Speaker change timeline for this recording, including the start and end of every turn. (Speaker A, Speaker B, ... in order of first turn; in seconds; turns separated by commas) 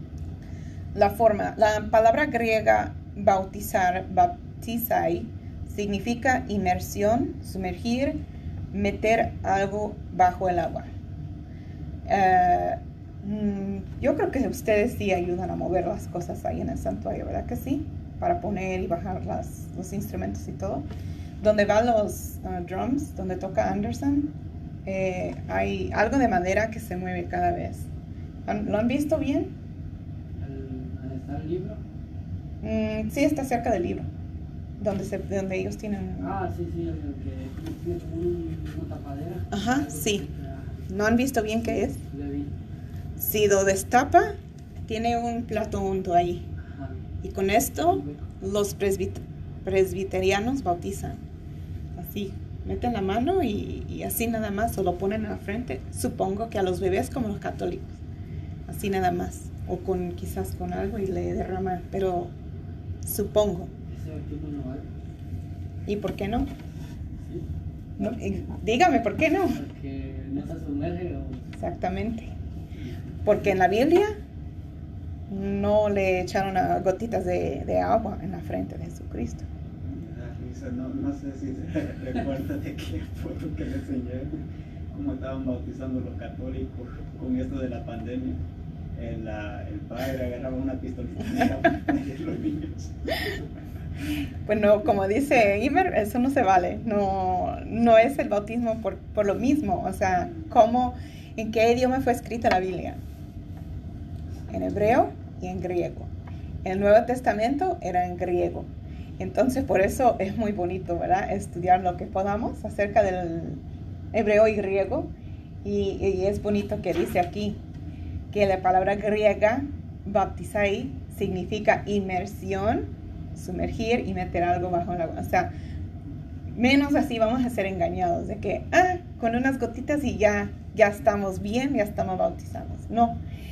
Speaker A: 0.9-8.2, Speaker A: 8.7-10.9, Speaker A: 12.1-20.9, Speaker A: 21.4-24.3, Speaker A: 24.9-27.9, Speaker A: 28.4-29.5, Speaker B: 30.4-31.8, Speaker A: 32.6-34.1, Speaker A: 34.8-36.3, Speaker B: 36.2-40.9, Speaker A: 39.5-40.2, Speaker A: 40.9-42.0, Speaker B: 41.9-42.5, Speaker A: 43.2-44.3, Speaker A: 44.9-46.5, Speaker B: 46.6-47.0, Speaker A: 47.2-51.2, Speaker A: 52.0-58.0, Speaker A: 58.7-62.3, Speaker A: 63.0-63.7, Speaker B: 63.9-64.9, Speaker A: 65.9-66.5, Speaker A: 68.0-69.6, Speaker B: 69.5-71.4, Speaker A: 71.6-72.3, Speaker B: 72.8-73.1, Speaker A: 73.2-74.1, Speaker A: 75.3-79.4, Speaker C: 79.8-84.4, Speaker C: 84.9-88.4, Speaker C: 88.9-92.9, Speaker A: 94.5-103.0, Speaker A: 104.5-106.1, Speaker A: 106.6-113.6, Speaker A: 114.1-115.1, Speaker A: 115.6-117.6, Speaker A: 118.3-125.5, Speaker A: 126.5-133.2